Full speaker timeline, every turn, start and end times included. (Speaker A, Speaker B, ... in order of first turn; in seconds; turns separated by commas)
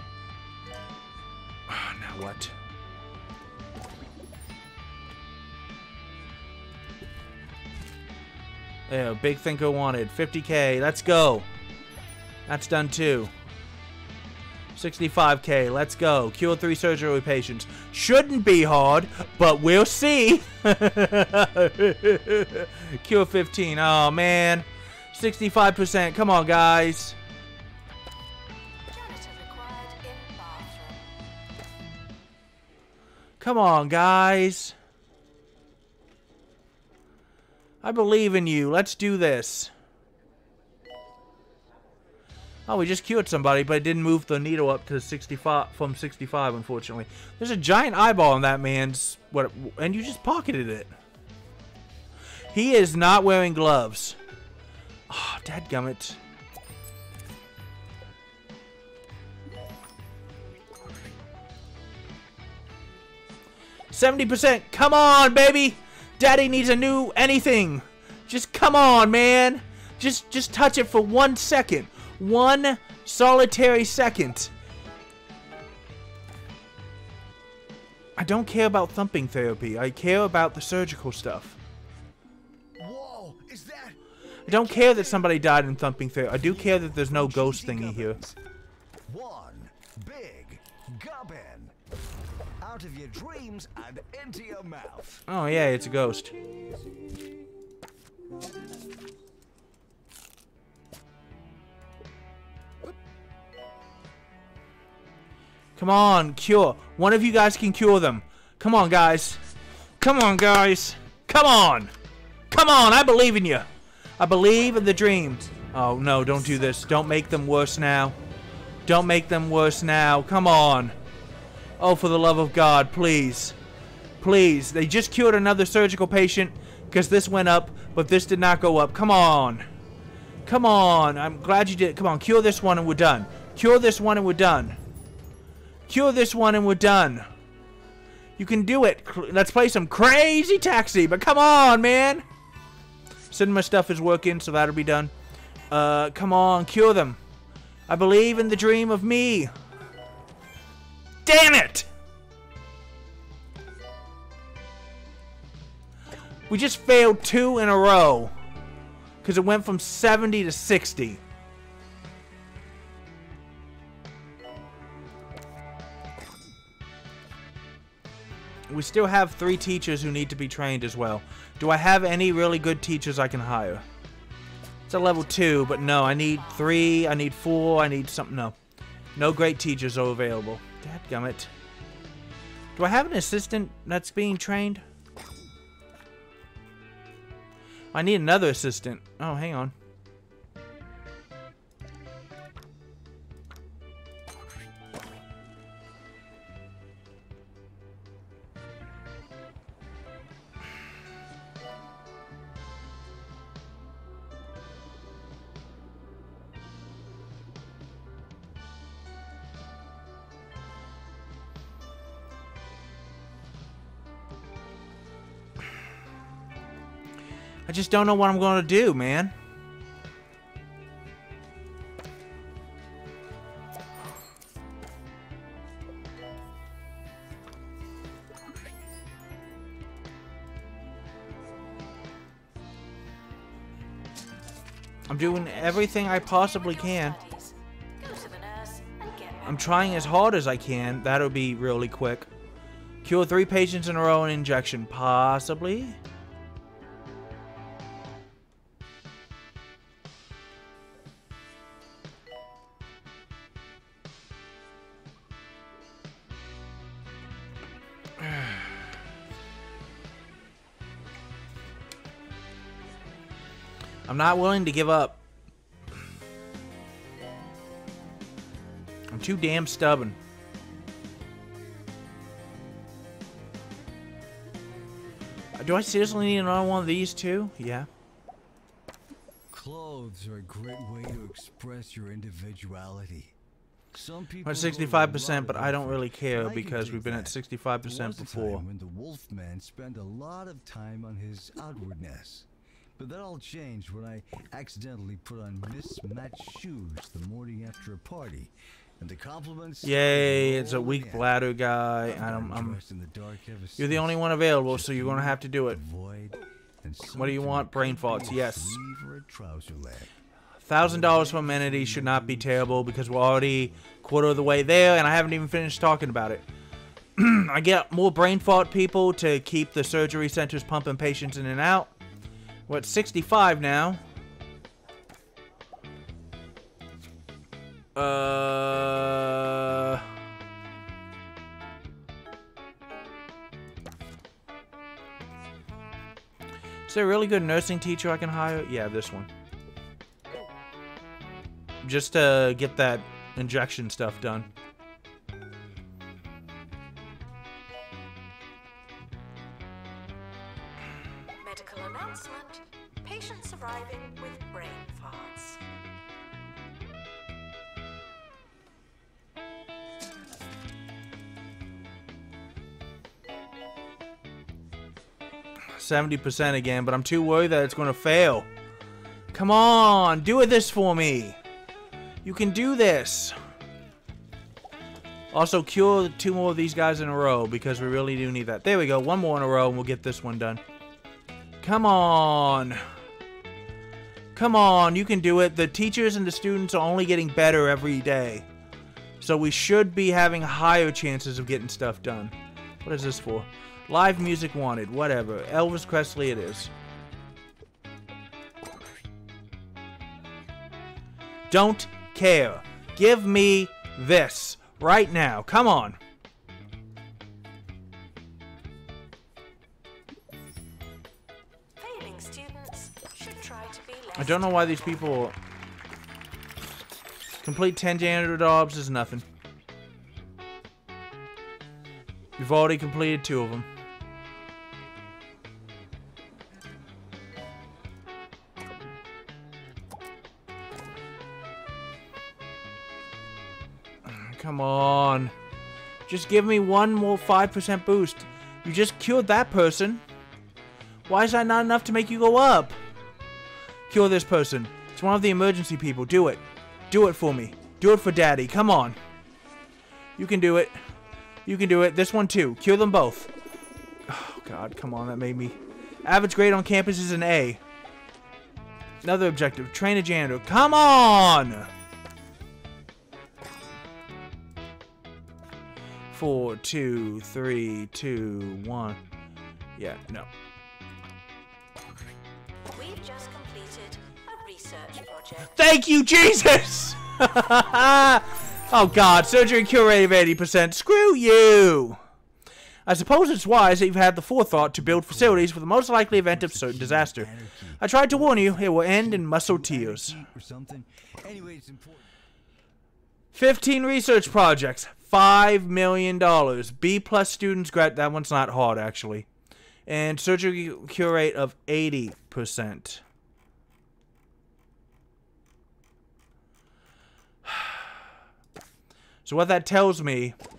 Speaker A: 1.7-2.5, Speaker A: 8.9-11.5, Speaker A: 12.5-13.3, Speaker A: 14.7-27.2, Speaker B: 28.9-31.1, Speaker A: 33.4-34.7, Speaker A: 37.8-39.7, Speaker A: 42.7-50.9, Speaker A: 52.5-54.2, Speaker A: 55.1-56.2, Speaker A: 63.9-74.5, Speaker A: 78.2-81.6, Speaker C: 82.8-85.2, Speaker A: 84.5-88.2, Speaker C: 86.3-88.4, Speaker C: 89.1-91.7, Speaker C: 92.6-95.2, Speaker A: 95.3-96.3, Speaker A: 105.8-109.4, Speaker A: 110.0-111.9, Speaker A: 112.5-113.7, Speaker A: 114.2-118.2, Speaker A: 118.8-120.9, Speaker A: 121.8-123.6, Speaker A: 124.2-129.7, Speaker A: 130.4-134.8, Speaker A: 135.9-137.3, Speaker A: 138.4-142.2, Speaker A: 143.3-145.1, Speaker A: 145.7-147.2, Speaker A: 147.9-149.5, Speaker A: 151.2-151.9, Speaker A: 156.5-158.3, Speaker A: 159.2-161.2, Speaker A: 168.7-173.8, Speaker A: 174.9-178.6, Speaker B: 174.9-177.0, Speaker A: 179.2-181.5, Speaker A: 182.8-184.8, Speaker A: 187.9-189.7, Speaker A: 217.7-219.3, Speaker A: 235.1-237.2, Speaker B: 235.1-240.1, Speaker A: 239.4-242.3, Speaker A: 243.0-246.0, Speaker A: 264.1-265.2, Speaker A: 269.1-270.2, Speaker A: 275.6-277.9, Speaker C: 279.5-283.3, Speaker C: 283.9-301.4, Speaker A: 284.4-288.6, Speaker A: 299.8-302.8, Speaker C: 302.0-310.1, Speaker A: 303.8-305.8, Speaker A: 307.1-308.8, Speaker A: 310.6-316.4, Speaker C: 310.8-313.0, Speaker A: 317.1-321.9, Speaker A: 322.7-324.0, Speaker A: 327.9-330.0, Speaker A: 336.9-339.3, Speaker A: 341.8-344.5, Speaker B: 351.4-355.6, Speaker A: 365.7-368.5, Speaker A: 369.3-371.4, Speaker A: 372.2-373.4, Speaker A: 375.3-380.6, Speaker A: 381.6-382.8, Speaker A: 384.3-388.5, Speaker A: 389.2-396.7, Speaker A: 401.5-406.0, Speaker B: 411.8-415.0, Speaker A: 414.1-415.4, Speaker A: 417.4-419.2, Speaker A: 422.4-423.7, Speaker A: 434.1-435.3, Speaker A: 436.1-440.0, Speaker A: 441.1-442.8, Speaker A: 443.9-449.0, Speaker A: 450.2-450.8, Speaker A: 451.4-453.3, Speaker A: 454.1-457.6, Speaker A: 459.0-461.7, Speaker A: 466.1-469.0, Speaker A: 469.8-470.3, Speaker B: 472.7-475.6, Speaker A: 475.5-482.0, Speaker A: 482.9-490.2, Speaker C: 484.8-485.5, Speaker C: 486.1-492.1, Speaker A: 493.3-499.3, Speaker A: 499.9-503.0, Speaker A: 507.4-507.9, Speaker A: 509.2-510.4